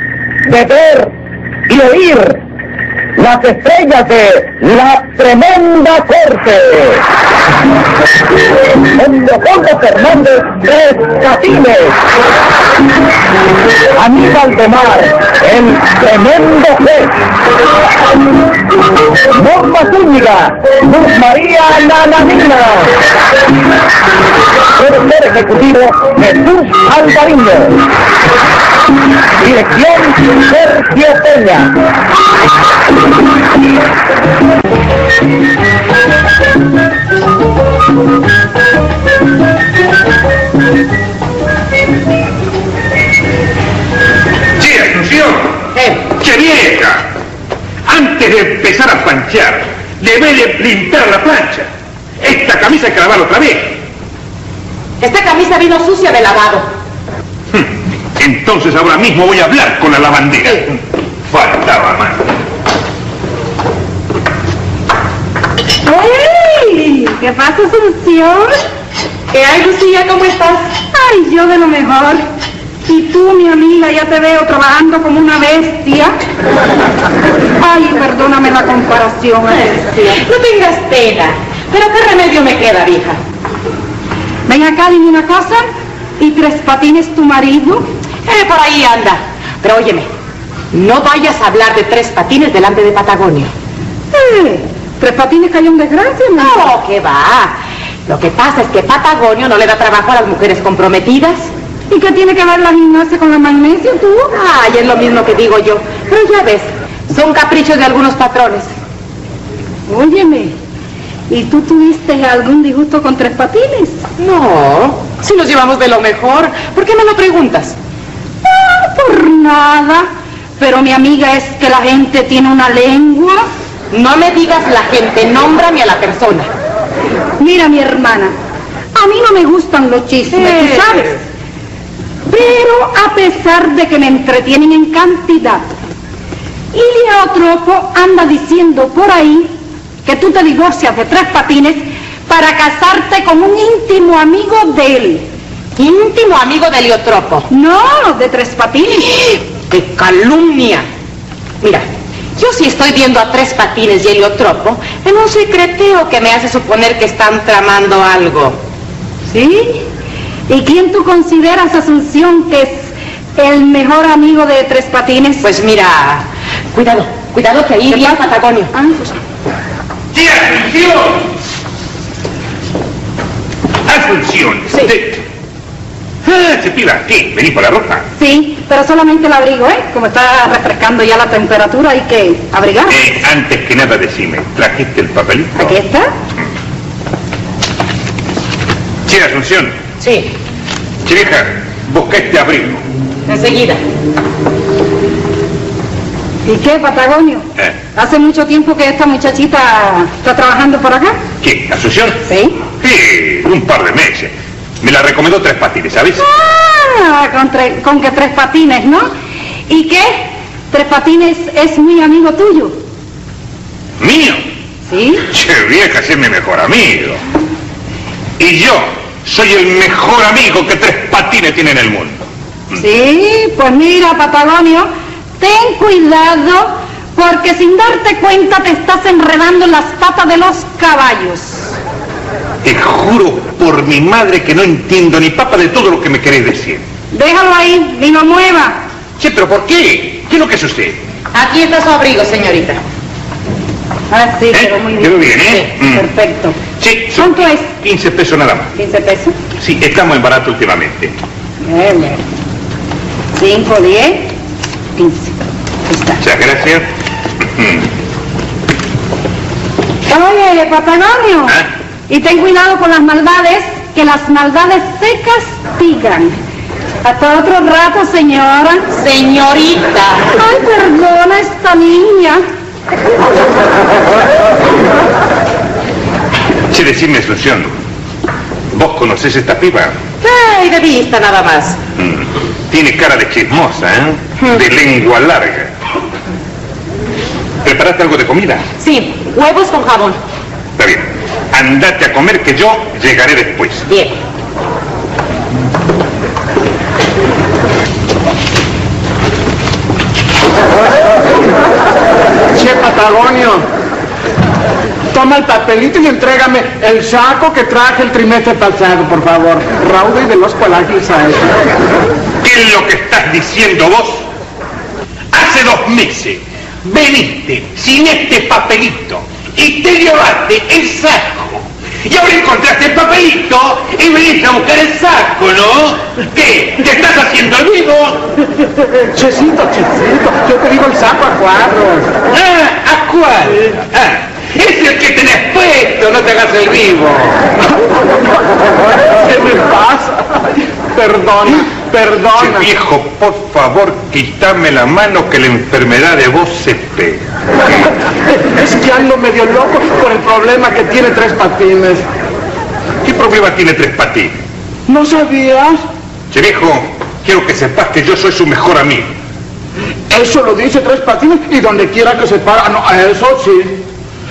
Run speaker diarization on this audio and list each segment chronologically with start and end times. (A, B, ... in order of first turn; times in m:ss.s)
0:00.5-0:01.1 A
0:01.7-0:02.4 A
0:03.2-0:07.0 A
0:08.7-0:12.0 A
0:14.0-0:17.2 A
0:19.3-0:23.0 A
0:24.8-0:27.8 A
0:29.4-0:31.8 A
0:44.6-0:45.6 B
0:45.7-0:46.1 C
0:46.2-0:47.1 B
0:47.8-0:51.7 B
0:52.2-0:53.8 B
0:55.0-0:56.7 C
0:57.5-1:02.3 B
1:05.8-1:08.6 D
1:09.3-1:10.7 C
1:10.8-1:12.2 D
1:12.9-1:16.2 D
1:17.6-1:19.8 D
1:19.8-1:23.2 C
1:24.5-1:25.6 D
1:26.2-1:27.9 D
1:28.3-1:30.1 C
1:30.7-1:33.5 C
1:34.1-1:36.7 D
1:36.4-1:41.5 C
1:41.9-1:44.3 D
1:44.3-1:48.7 C
1:49.9-1:50.5 D
1:51.3-1:54.0 D
1:54.2-1:57.8 C
1:58.5-2:00.1 D
2:00.6-2:03.5 D
2:03.9-2:06.5 C
2:07.4-2:08.4 D
2:09.0-2:11.2 D
2:10.4-2:11.1 C
2:12.3-2:15.7 D
2:16.7-2:19.5 D
2:20.0-2:25.3 D
2:25.8-2:27.5 C
2:27.5-2:29.2 D
2:29.2-2:30.9 C
2:31.6-2:38.6 C
2:39.3-2:39.8 D
2:40.5-2:45.4 D
2:45.4-2:48.8 C
2:47.9-2:48.2 D
2:48.7-2:49.1 D
2:50.1-2:51.2 B
2:53.9-2:55.2 B
2:56.2-2:58.0 B
2:58.2-3:03.0 D
3:02.9-3:05.8 B
3:05.6-3:06.1 D
3:09.1-3:09.8 B
3:10.0-3:10.3 C
3:11.0-3:12.8 B
3:13.3-3:13.8 C
3:16.5-3:21.2 D
3:21.4-3:22.2 B
3:22.3-3:22.6 D
3:22.8-3:26.2 B
3:26.2-3:29.1 D
3:29.7-3:32.8 D
3:34.0-3:34.4 B
3:34.9-3:35.2 D
3:35.3-3:37.2 B
3:38.4-3:42.2 B
3:42.7-3:51.7 D
3:52.6-3:56.8 B
3:57.1-3:58.8 D
3:59.2-4:01.0 B
4:01.3-4:02.8 C
4:04.1-4:06.6 D
4:04.5-4:06.1 B
4:06.8-4:08.7 B
4:07.2-4:07.7 D
4:08.8-4:09.3 D
4:09.6-4:11.1 B
4:11.6-4:12.2 D
4:13.4-4:14.3 D
4:15.0-4:15.3 D
4:15.9-4:16.2 D
4:16.2-4:16.9 B
4:17.6-4:17.9 B
4:20.1-4:26.4 D
4:27.0-4:28.9 D
4:28.9-4:30.3 C
4:30.4-4:32.4 D
4:36.7-4:37.7 B
4:38.7-4:40.0 B
4:40.2-4:41.8 C
4:42.0-4:45.7 B
4:47.6-4:48.6 B
4:48.8-4:50.2 C
4:50.8-4:53.9 B
4:53.9-4:54.2 C
5:02.5-5:03.7 E
5:05.1-5:11.6 E
5:12.4-5:14.2 B
5:15.3-5:28.3 B
5:29.1-5:32.2 E
5:32.3-5:37.5 B
5:39.0-5:42.7 E
5:42.3-5:47.2 B
5:48.3-5:52.0 E
5:53.0-5:54.4 B
5:54.9-5:55.8 E
5:56.3-5:59.1 B
6:00.1-6:03.8 E